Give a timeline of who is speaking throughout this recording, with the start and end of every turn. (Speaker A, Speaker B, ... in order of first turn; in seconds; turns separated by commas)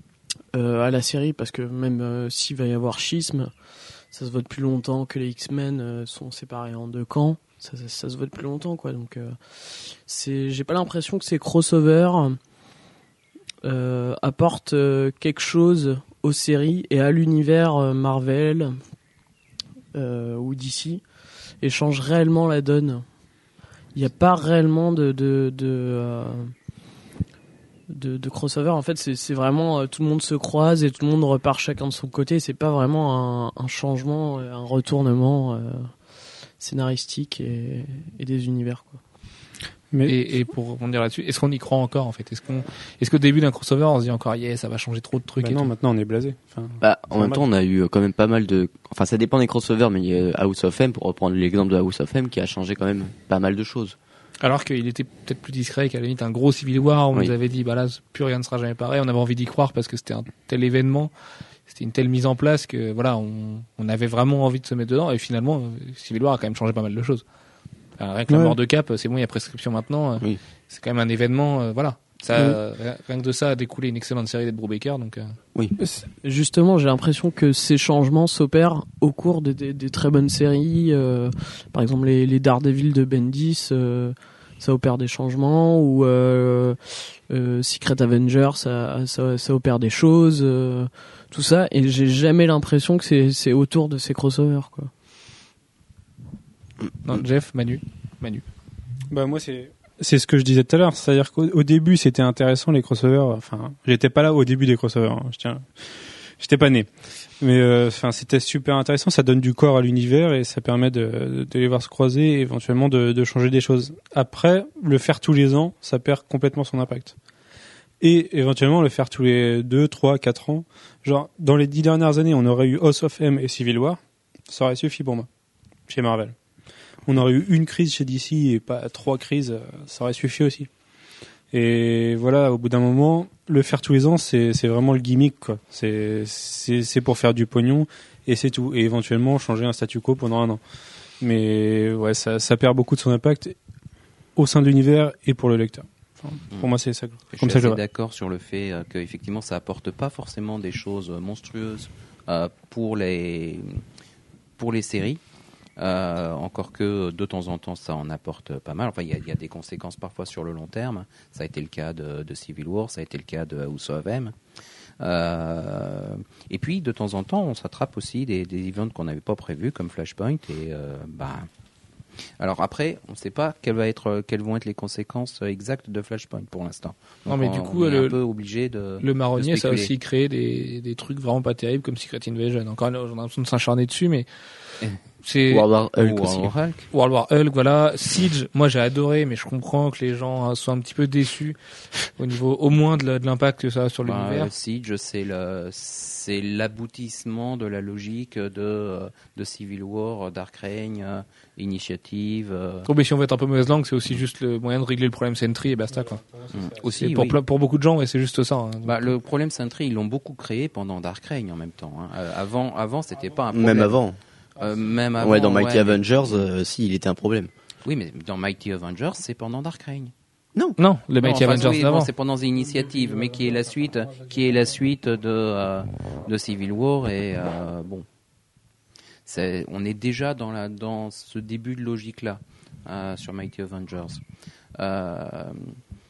Speaker A: 0.5-3.5, Speaker A: 4.1-12.4, Speaker A: 13.6-18.8, Speaker A: 19.9-21.0, Speaker A: 21.6-23.1, Speaker A: 23.9-26.5, Speaker A: 27.9-35.9, Speaker A: 36.6-39.0, Speaker B: 39.9-40.2, Speaker C: 40.0-45.7, Speaker B: 45.4-47.4, Speaker D: 46.8-54.0, Speaker C: 54.4-61.1, Speaker C: 61.7-67.2, Speaker C: 68.0-75.3, Speaker B: 68.3-68.6, Speaker A: 75.9-94.9, Speaker C: 97.0-98.5, Speaker B: 99.1-117.2, Speaker B: 118.0-125.3, Speaker B: 125.9-126.3, Speaker B: 127.0-130.7, Speaker B: 131.5-140.6, Speaker B: 141.2-143.6, Speaker B: 144.3-147.8, Speaker E: 147.3-153.8, Speaker E: 154.6-155.2, Speaker E: 155.8-164.3, Speaker E: 165.0-171.5, Speaker E: 172.4-179.9, Speaker C: 177.2-178.2, Speaker C: 179.0-184.3, Speaker C: 185.2-185.7, Speaker D: 185.5-186.5, Speaker E: 186.0-186.9, Speaker C: 186.9-191.6, Speaker C: 192.1-194.5, Speaker E: 194.0-202.9, Speaker C: 202.9-206.2, Speaker B: 205.9-206.9, Speaker E: 206.5-207.4, Speaker C: 206.8-209.1, Speaker E: 208.8-214.0, Speaker D: 213.5-214.2, Speaker E: 214.6-216.5, Speaker D: 215.2-217.5, Speaker E: 217.8-220.1, Speaker C: 220.8-222.1, Speaker E: 221.2-228.1, Speaker E: 229.2-234.2, Speaker E: 234.8-235.8